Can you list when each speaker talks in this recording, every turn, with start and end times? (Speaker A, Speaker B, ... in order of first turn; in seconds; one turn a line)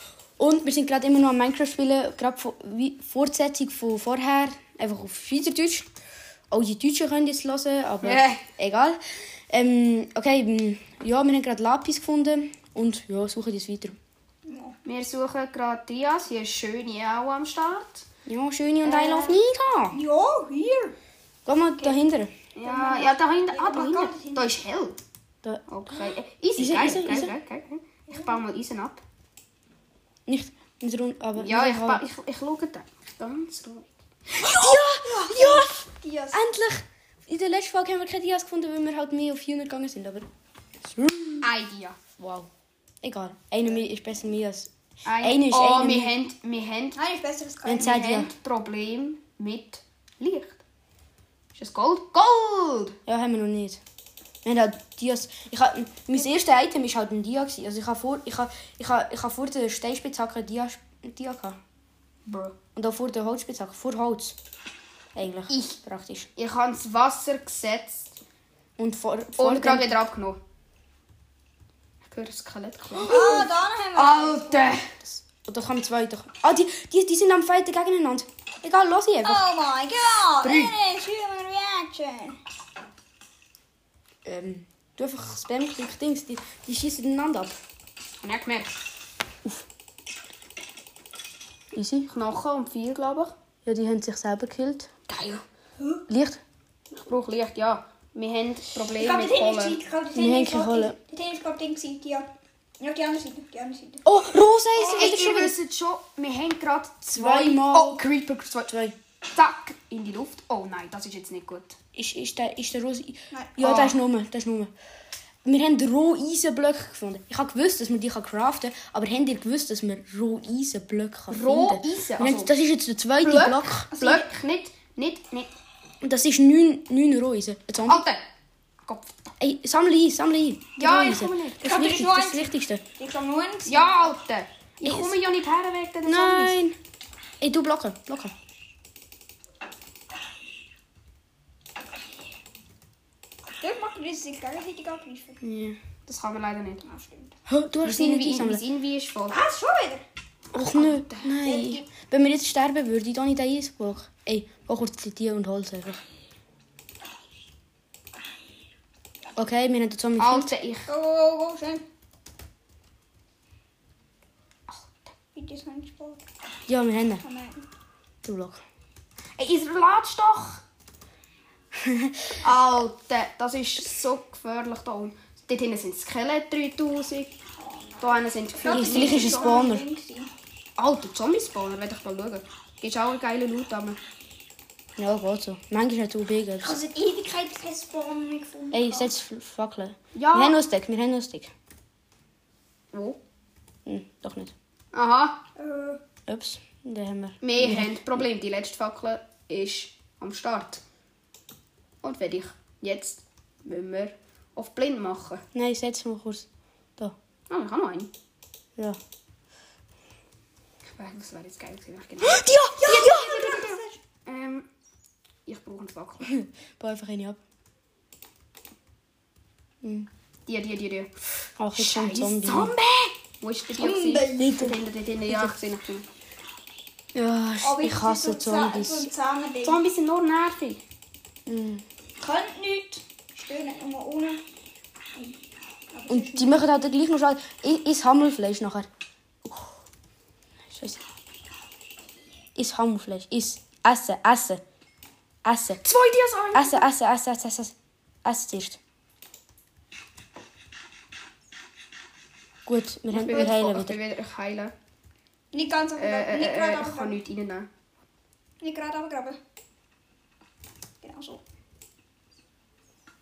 Speaker A: 0.4-5.9
Speaker A: 6.5-9.0
Speaker B: 8.0-8.4
Speaker A: 9.5-14.0
Speaker C: 14.5-14.8
Speaker B: 14.8-18.1
Speaker A: 18.3-20.0
Speaker B: 18.8-19.4
Speaker C: 19.9-20.9
Speaker A: 21.4-22.3
Speaker B: 22.6-25.0
Speaker C: 22.6-24.5
Speaker B: 25.7-29.0
Speaker A: 26.6-27.3
Speaker A: 30.3-32.0
Speaker B: 31.4-33.9
Speaker A: 34.4-35.8
Speaker C: 34.5-36.4
Speaker A: 36.3-40.3
Speaker A: 40.9-41.5
Speaker B: 41.4-42.0
Speaker A: 42.2-42.5
Speaker A: 43.0-46.1
Speaker B: 45.0-47.0
Speaker C: 47.0-48.1
Speaker A: 47.6-48.3
Speaker B: 47.8-50.6
Speaker B: 51.5-53.0
Speaker A: 53.0-53.8
Speaker A: 54.4-61.6
Speaker B: 62.2-62.6
Speaker A: 62.8-64.4
Speaker A: 65.1-66.3
Speaker B: 65.5-65.8
Speaker B: 66.4-68.2
Speaker A: 68.8-70.0
Speaker B: 69.4-70.4
Speaker B: 72.0-74.9
Speaker C: 73.0-74.8
Speaker A: 75.0-79.5
Speaker C: 79.2-82.4
Speaker A: 80.4-80.7
Speaker A: 84.2-87.7
Speaker B: 88.2-88.8
Speaker A: 91.8-92.1
Speaker B: 92.1-93.3
Speaker A: 93.6-94.9
Speaker B: 95.1-95.4
Speaker A: 96.1-96.4
Speaker B: 96.9-99.8
Speaker C: 99.0-104.0
Speaker A: 100.1-101.0
Speaker A: 104.0-105.5
Speaker B: 104.8-108.7
Speaker A: 107.1-108.0
Speaker A: 108.7-109.0
Speaker B: 109.3-111.8
Speaker A: 112.0-114.7
Speaker C: 113.3-113.6
Speaker B: 113.6-114.0
Speaker A: 115.5-123.9
Speaker B: 121.3-122.5
Speaker B: 123.2-125.5
Speaker C: 123.9-124.3
Speaker A: 126.0-128.0
Speaker B: 127.9-128.2
Speaker B: 128.8-129.2
Speaker A: 129.4-132.8
Speaker B: 130.8-131.6
Speaker C: 131.6-134.1
Speaker B: 133.7-136.6
Speaker A: 134.8-135.1
Speaker A: 136.1-136.8
Speaker A: 137.4-138.3
Speaker C: 143.6-145.4
Speaker A: 145.4-145.8
Speaker B: 146.1-146.8
Speaker C: 146.8-147.3
Speaker A: 147.5-148.6
Speaker B: 147.8-149.4
Speaker C: 149.3-150.0
Speaker A: 150.5-156.0
Speaker B: 150.5-151.3
Speaker C: 151.4-151.8
Speaker A: 159.4-160.5
Speaker B: 160.2-160.9
Speaker C: 160.9-161.8
Speaker B: 164.7-165.0
Speaker C: 165.3-166.2
Speaker A: 166.7-167.2
Speaker C: 167.2-167.7
Speaker A: 168.2-168.6
Speaker B: 169.4-170.6
Speaker A: 171.8-172.3
Speaker B: 172.4-177.3
Speaker C: 177.6-180.3
Speaker B: 178.0-179.7
Speaker A: 178.7-179.9
Speaker B: 180.8-184.0
Speaker A: 185.0-186.8
Speaker C: 186.6-189.1
Speaker A: 188.7-191.5
Speaker B: 190.1-190.6
Speaker B: 192.9-193.2
Speaker A: 193.8-194.5
Speaker B: 194.9-195.4
Speaker C: 195.6-196.0
Speaker A: 196.3-197.9
Speaker B: 197.4-200.8
Speaker B: 202.0-205.4
Speaker A: 205.5-207.1
Speaker B: 207.5-208.1
Speaker B: 210.8-214.7
Speaker A: 212.2-213.4
Speaker C: 212.8-214.0
Speaker B: 215.4-216.3
Speaker A: 216.3-217.4
Speaker A: 219.8-220.1
Speaker B: 220.5-221.1
Speaker A: 221.6-222.7
Speaker B: 221.7-226.1
Speaker C: 223.8-224.7
Speaker A: 224.4-224.8
Speaker A: 225.3-225.5
Speaker A: 227.1-229.1
Speaker C: 227.6-229.8
Speaker B: 229.6-230.8
Speaker A: 231.5-231.8
Speaker C: 232.2-234.4
Speaker C: 235.9-236.7
Speaker A: 236.1-238.9
Speaker A: 240.7-241.0
Speaker A: 242.6-244.6
Speaker A: 245.4-245.8
Speaker B: 245.8-246.9
Speaker A: 246.5-247.7
Speaker A: 248.2-248.8
Speaker A: 252.7-254.0
Speaker B: 253.1-254.7
Speaker C: 255.5-257.2
Speaker B: 256.0-257.7
Speaker C: 258.6-259.4
Speaker C: 261.0-261.4